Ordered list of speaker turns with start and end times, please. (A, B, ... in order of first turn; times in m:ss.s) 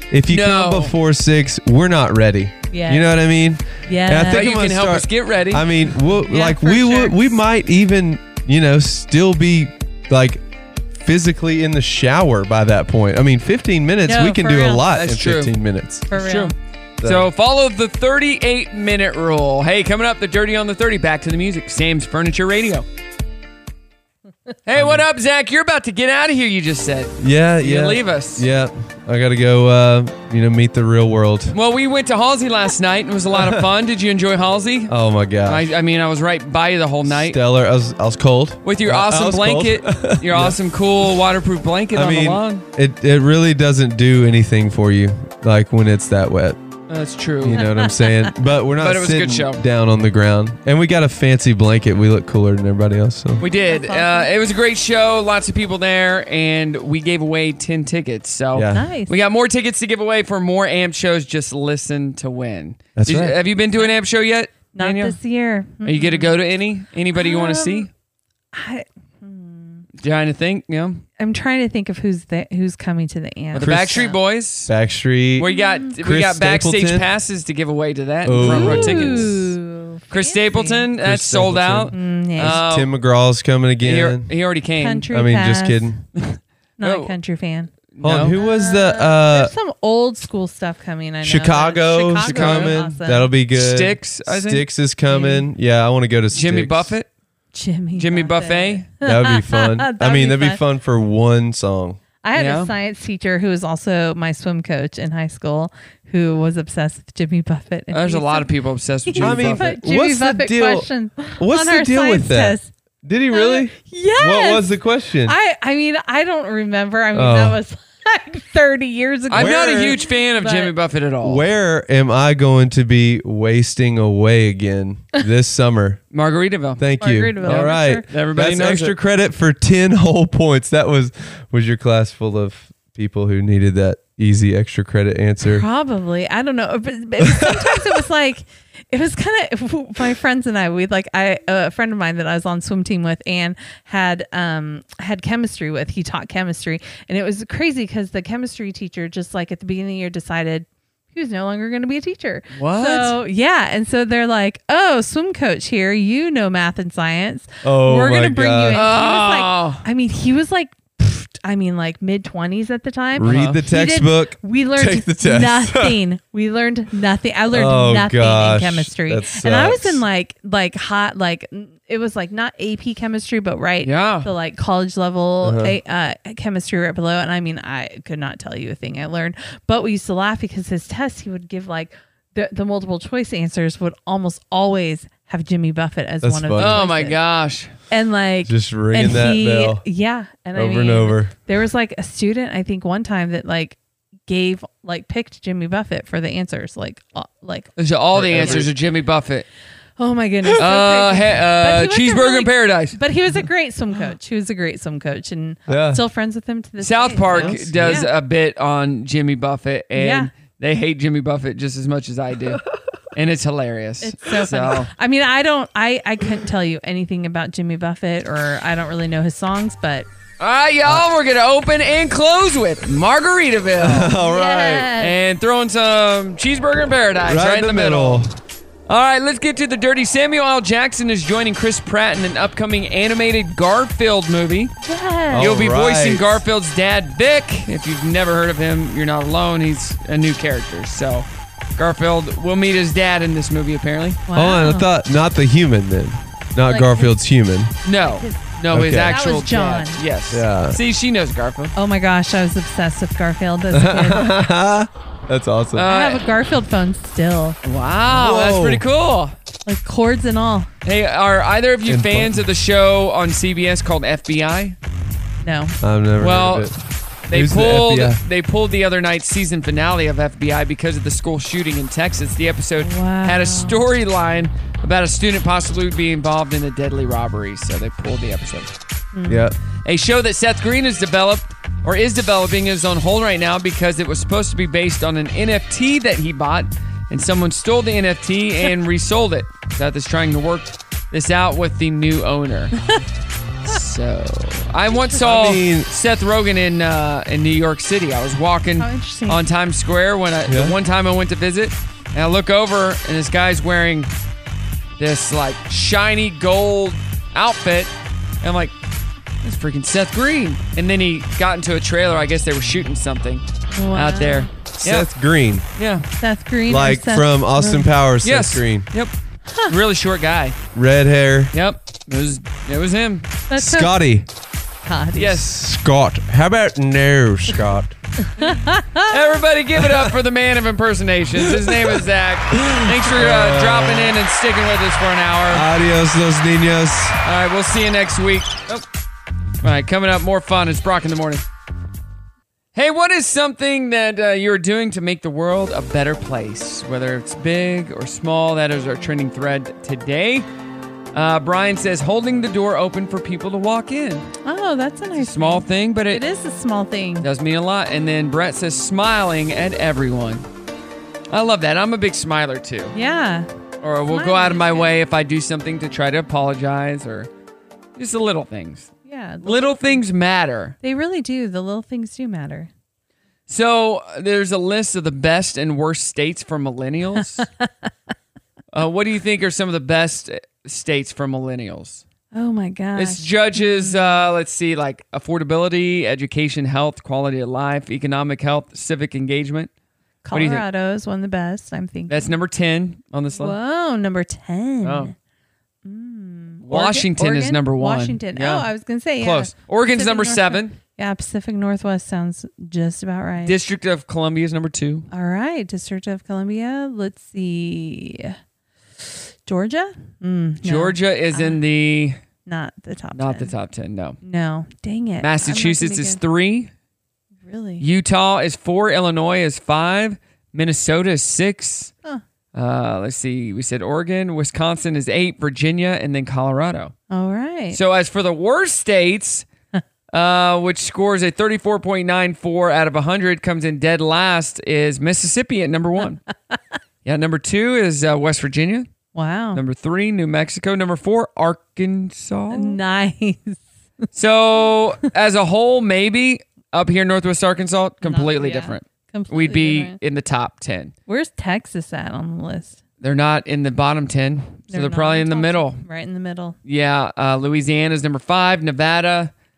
0:00.1-0:10.4 A
0:00.3-0:00.9 B
0:02.7-0:03.1 C
0:03.8-0:04.5 C
0:04.3-0:07.1 B
0:10.9-0:16.1 A
0:14.0-0:14.8 C
0:14.9-0:15.5 B
0:16.1-0:16.5 C
0:16.1-0:16.5 B
0:17.0-0:17.3 A
0:17.0-0:22.8 B
0:24.6-0:28.4 B
0:24.7-0:25.0 A
0:27.2-0:31.5 A
0:31.5-0:34.9 B
0:33.3-0:33.6 A
0:34.9-0:35.7 A
0:35.4-0:37.4 B
0:37.0-0:40.6 A
0:38.6-0:42.6 B
0:41.9-0:46.6 A
0:46.9-0:47.7 B
0:47.4-0:53.4 A
0:47.6-0:47.9 C
0:48.8-0:49.6 B
0:53.4-1:05.2 B
0:53.5-0:54.3 C
0:58.5-0:58.9 A
0:58.7-0:59.2 C
1:03.0-1:03.4 A
1:04.7-1:06.4 C
1:05.8-1:07.9 B
1:07.1-1:07.9 C
1:08.5-1:09.8 C
1:10.0-1:11.0 B
1:11.2-1:14.1 C
1:13.5-1:14.7 B
1:13.6-1:14.1 A
1:14.6-1:17.1 A
1:15.4-1:19.5 B
1:15.5-1:15.9 C
1:18.2-1:19.5 A
1:18.4-1:20.9 C
1:20.1-1:22.9 B
1:21.0-1:24.3 A
1:21.9-1:22.6 C
1:23.8-1:25.1 B
1:24.8-1:25.9 C
1:25.1-1:26.0 A
1:26.2-1:27.1 B
1:26.8-1:27.7 C
1:27.9-1:28.4 B
1:28.0-1:29.5 A
1:28.3-1:33.3 C
1:31.2-1:36.9 A
1:32.2-1:32.8 B
1:33.5-1:35.2 B
1:36.3-1:37.1 B
1:37.5-1:40.6 C
1:38.0-1:38.8 B
1:39.0-1:42.0 A
1:42.2-1:48.5 C
1:42.3-1:42.7 B
1:47.9-1:49.7 B
1:49.1-1:52.7 C
1:49.2-1:55.3 A
1:53.3-1:54.7 C
1:55.2-2:00.7 C
1:57.1-1:57.6 A
1:59.3-2:01.4 B
1:59.3-2:00.0 A
2:01.2-2:06.0 A
2:06.1-2:06.8 B
2:06.8-2:15.6 A
2:07.0-2:08.0 C
2:07.4-2:08.9 B
2:15.4-3:07.2 C
2:17.2-2:17.8 A
2:32.5-2:33.2 B
2:37.6-2:38.8 A
2:38.7-2:39.8 B
2:43.2-2:46.0 A
2:43.2-2:43.6 B
2:47.5-2:50.0 A
2:53.8-2:54.3 B
2:55.4-2:55.8 A
3:06.2-3:06.8 A
3:06.6-3:07.7 B
3:07.9-3:17.7 C
3:08.4-3:09.8 A
3:10.5-3:11.3 A
3:17.8-3:19.4 B
3:18.1-3:18.7 A
3:18.3-3:18.6 C
3:20.0-3:28.1 C
3:20.6-3:23.0 B
3:25.7-3:26.0 A
3:26.8-3:32.6 B
3:27.3-3:28.0 A
3:29.9-3:30.3 C
3:33.1-3:34.9 B
3:34.0-3:40.1 C
3:40.4-3:44.1 B
3:43.8-3:44.9 A
3:44.1-3:45.2 C
3:45.0-3:48.2 B
3:47.2-3:48.3 A
3:48.9-3:54.7 B
3:54.8-3:55.5 C
3:55.3-3:56.4 A
3:55.4-4:04.2 B
4:04.3-4:04.9 C
4:04.3-4:07.7 A
4:06.7-4:07.1 C
4:07.8-4:11.7 B
4:08.0-4:08.4 C
4:08.7-4:09.2 A
4:09.0-4:10.0 C
4:10.3-4:10.8 A
4:11.8-4:14.4 C
4:13.7-4:15.9 A
4:15.7-4:16.2 B
4:15.8-4:17.6 C
4:17.6-4:19.3 B
4:18.1-4:18.8 A
4:19.6-4:20.7 C
4:20.8-4:24.8 B
4:21.8-4:22.4 A
4:25.4-4:25.8 C
4:25.8-4:26.8 A
4:26.2-4:26.7 B
4:27.3-4:38.7 B
4:27.3-4:28.2 A
4:32.8-4:33.8 C
4:39.1-4:39.4 C
4:39.3-4:39.6 A
4:39.8-4:52.7 B
4:53.6-5:04.1 B
4:55.2-4:55.9 A
4:58.8-4:59.4 C
5:00.5-5:00.7 A
5:05.0-5:08.7 B
5:09.4-5:15.1 B
5:13.7-5:14.5 C
5:14.8-5:15.7 A
5:15.8-5:16.0 B
5:16.2-5:17.9 C
5:16.7-5:18.9 A
5:18.2-5:19.1 B
5:19.7-5:20.6 B
5:20.7-5:21.5 A
5:21.5-5:23.3 B
5:23.5-5:23.9 C
5:23.6-5:24.3 A
5:24.8-5:25.4 C
5:25.2-5:25.5 B
5:25.3-5:27.9 A
5:28.4-5:29.1 C
5:29.1-5:35.6 B
5:31.5-5:31.9 A
5:32.5-5:34.1 A
5:35.5-5:37.2 A
5:37.2-5:38.8 B
5:39.6-5:41.4 B
5:42.7-5:50.4 B
5:51.1-5:54.3 B
5:54.4-5:57.3 C
5:55.2-5:56.2 B
5:57.2-6:00.4 B
6:01.3-6:02.9 B
6:02.9-6:03.5 C
6:03.8-6:07.3 B
6:04.1-6:05.0 C
6:08.0-6:08.9 B
6:09.0-6:10.0 C
6:09.4-6:10.7 B
6:10.8-6:12.7 C
6:13.5-6:17.4 B
6:17.2-6:17.7 C
6:18.7-6:22.0 B
6:22.3-6:24.3 C
6:23.0-6:29.7 B
6:30.2-6:32.3 C
6:30.3-6:30.6 B
6:32.1-6:33.6 B
6:33.3-6:35.1 C
6:34.8-6:35.1 B
6:35.8-6:43.6 C
6:36.6-6:38.7 B
6:39.2-6:40.8 B
6:43.4-6:45.1 B
6:45.1-6:48.4 C
6:49.4-6:51.6 C
6:50.6-6:52.2 B
6:52.4-6:53.5 C
6:53.1-6:54.2 B
6:54.2-6:56.2 C
6:55.2-6:56.7 B
6:57.4-6:57.8 C
6:57.8-7:01.9 B
7:02.5-7:06.9 B
7:07.1-7:07.8 C
7:07.7-7:09.4 B
7:10.1-7:16.2 B
7:17.0-7:18.9 B
7:19.1-7:19.6 C
7:19.5-7:22.8 B
7:22.5-7:23.6 C
7:24.1-7:30.9 B
7:28.0-7:30.0 C
7:31.1-7:32.8 C
7:33.0-7:35.8 B
7:34.7-7:36.6 C
7:36.6-7:39.3 B